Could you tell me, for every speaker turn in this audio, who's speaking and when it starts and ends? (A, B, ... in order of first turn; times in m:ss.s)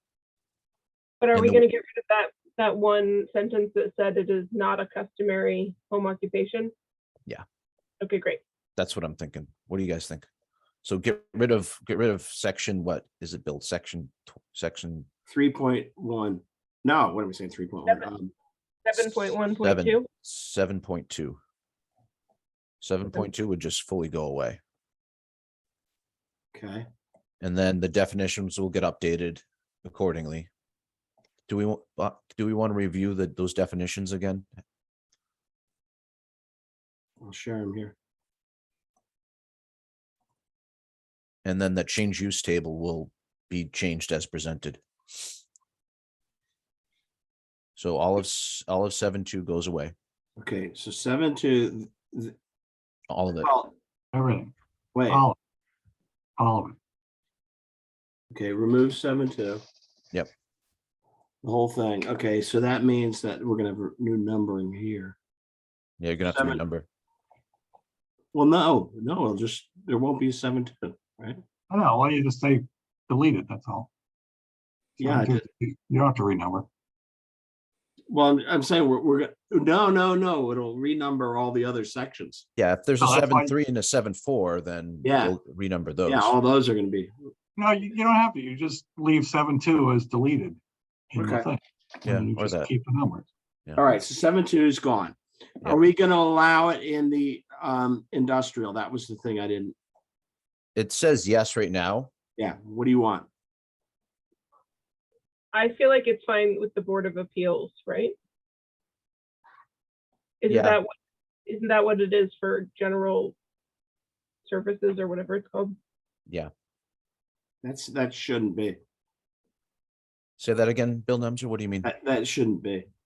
0:01.2-0:06.7 A
0:01.3-0:01.6 B
0:08.0-0:08.4 A
0:08.8-0:10.3 B
0:10.8-0:15.1 B
0:15.3-0:18.3 C
0:18.8-0:20.1 A
0:19.6-0:21.4 B
0:22.8-0:24.6 B
0:26.5-0:26.9 C
0:27.4-0:30.5 B
0:31.5-0:34.5 B
0:37.2-0:38.0 C
0:41.4-0:44.8 B
0:47.8-0:49.9 B
0:50.4-0:52.3 C
0:53.1-0:53.5 B
0:53.4-0:53.7 C
0:54.1-0:54.5 D
0:54.9-0:55.2 C
0:55.1-0:55.4 D
0:56.4-0:56.8 D
0:58.3-0:59.6 C
1:01.4-1:05.2 C
1:06.0-1:06.9 B
1:06.3-1:06.6 C
1:08.3-1:11.4 C
1:11.7-1:13.9 D
1:15.0-1:16.7 D
1:15.0-1:15.4 C
1:18.1-1:22.4 C
1:22.6-1:26.3 B
1:23.0-1:23.6 D
1:25.0-1:25.4 C
1:26.0-1:27.1 C
1:27.6-1:30.6 D
1:31.1-1:33.3 D
1:31.2-1:31.5 C
1:32.0-1:32.7 B
1:33.8-1:39.8 C
1:40.8-1:42.1 B
1:42.4-1:43.3 C
1:45.5-1:48.2 A
1:50.4-1:50.9 A
1:50.5-1:50.8 B
1:51.4-1:53.3 A
1:54.4-1:55.8 A
1:57.6-1:58.8 C
2:00.4-2:01.9 B
2:01.8-2:02.9 C